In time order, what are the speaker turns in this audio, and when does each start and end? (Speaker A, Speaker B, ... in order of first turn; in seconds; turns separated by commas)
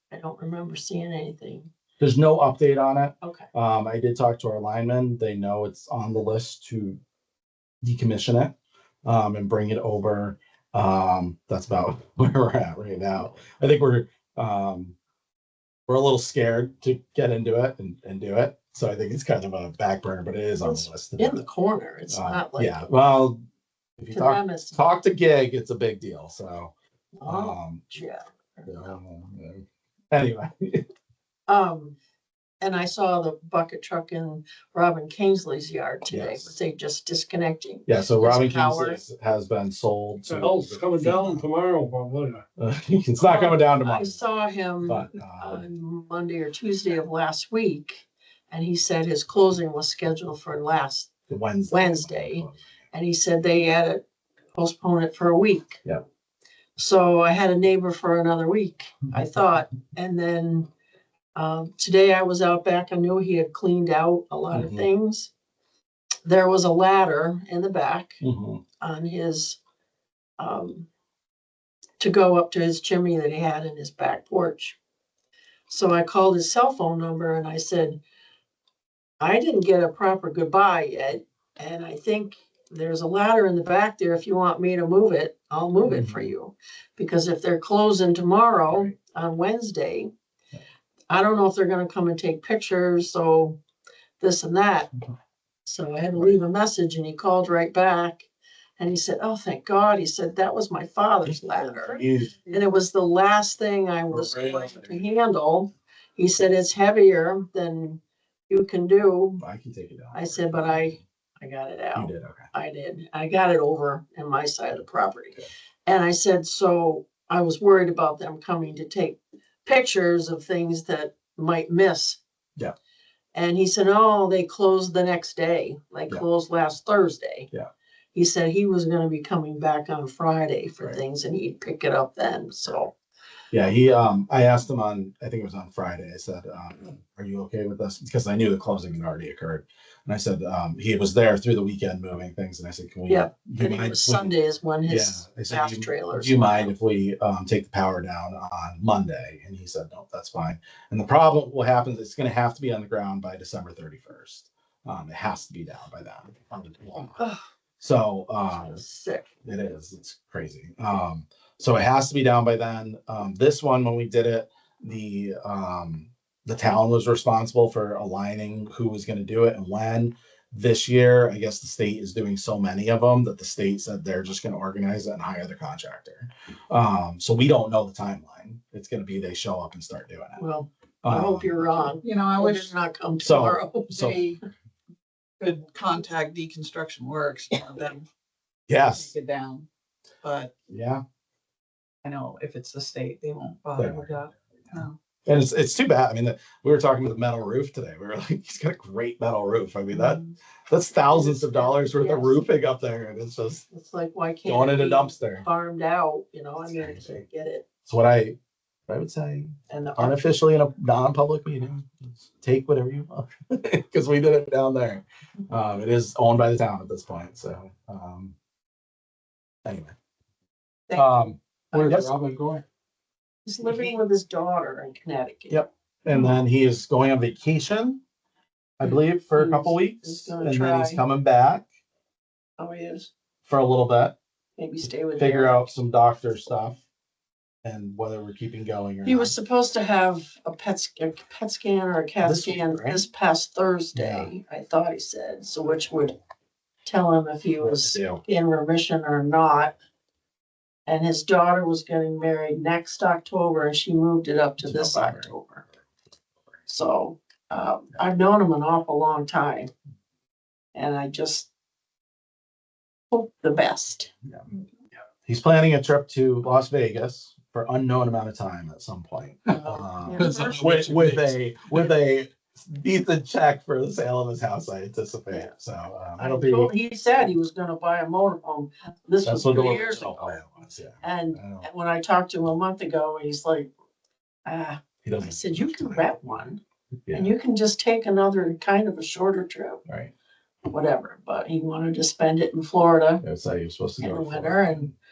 Speaker A: 0.1-1.7, Speaker B: 2.0-7.0, Speaker A: 3.2-3.5, Speaker B: 7.8-8.5, Speaker B: 9.0-14.9, Speaker B: 15.9-21.4, Speaker A: 20.6-22.8, Speaker B: 22.1-23.4, Speaker B: 24.0-26.7, Speaker A: 24.1-24.9, Speaker A: 27.2-28.7, Speaker B: 27.2-27.9, Speaker B: 28.6-30.8, Speaker A: 31.5-32.0, Speaker A: 32.6-39.0, Speaker B: 36.1-36.5, Speaker B: 37.9-41.5, Speaker C: 40.3-42.4, Speaker B: 42.6-44.2, Speaker A: 43.2-51.1, Speaker B: 44.8-45.6, Speaker B: 51.3-52.6, Speaker A: 51.7-54.0, Speaker A: 54.5-55.8, Speaker A: 56.8-60.7, Speaker A: 61.3-65.3, Speaker B: 64.5-64.9, Speaker A: 66.2-68.2, Speaker B: 68.2-68.6, Speaker A: 68.8-69.6, Speaker A: 70.4-70.9, Speaker A: 72.0-74.8, Speaker A: 75.7-78.0, Speaker A: 79.2-90.1, Speaker B: 85.8-86.3, Speaker A: 91.1-93.6, Speaker A: 94.2-94.9, Speaker A: 95.6-109.4, Speaker B: 101.2-102.4, Speaker B: 104.1-105.0, Speaker B: 109.4-111.0, Speaker A: 110.1-122.2, Speaker B: 111.9-112.5, Speaker A: 123.3-127.5, Speaker A: 128.1-132.9, Speaker B: 133.5-144.3, Speaker A: 143.1-146.7, Speaker B: 144.9-157.2, Speaker B: 157.8-158.8, Speaker A: 158.5-159.3, Speaker B: 159.4-180.4, Speaker A: 180.4-184.3, Speaker B: 181.0-181.5, Speaker D: 182.0-182.7, Speaker B: 183.2-184.2, Speaker D: 184.0-184.3, Speaker D: 185.4-188.1, Speaker B: 188.7-189.1, Speaker D: 188.9-189.7, Speaker D: 190.2-190.5, Speaker B: 190.7-191.0, Speaker D: 192.0-194.9, Speaker B: 193.8-194.2, Speaker B: 195.2-203.7, Speaker A: 201.1-202.4, Speaker A: 203.7-207.6, Speaker B: 204.4-205.4, Speaker B: 206.6-207.2, Speaker B: 207.8-208.3, Speaker B: 208.9-218.3, Speaker A: 209.7-210.2, Speaker B: 219.6-219.9, Speaker A: 220.9-222.1, Speaker B: 220.9-222.1, Speaker C: 222.1-222.6, Speaker A: 223.4-226.3, Speaker B: 225.5-228.0, Speaker B: 228.8-231.6, Speaker A: 228.8-231.0, Speaker A: 232.6-233.1, Speaker B: 233.4-234.1, Speaker A: 234.6-235.7, Speaker B: 235.2-236.8, Speaker B: 237.6-239.3, Speaker A: 239.0-246.2, Speaker B: 242.2-243.0, Speaker B: 243.9-244.3, Speaker A: 246.8-249.7, Speaker B: 247.6-248.2, Speaker A: 250.8-255.6, Speaker B: 254.6-255.3, Speaker A: 256.7-259.7, Speaker A: 260.7-261.5, Speaker A: 263.1-264.1, Speaker B: 265.2-276.7, Speaker A: 269.5-270.6, Speaker C: 270.2-271.4, Speaker A: 276.2-280.4, Speaker B: 279.2-281.7, Speaker A: 281.0-283.7, Speaker A: 284.4-286.6, Speaker B: 285.0-286.4, Speaker B: 287.1-287.3, Speaker A: 287.1-289.8, Speaker B: 289.9-290.1, Speaker A: 290.7-293.2, Speaker B: 293.2-294.9, Speaker A: 294.0-294.9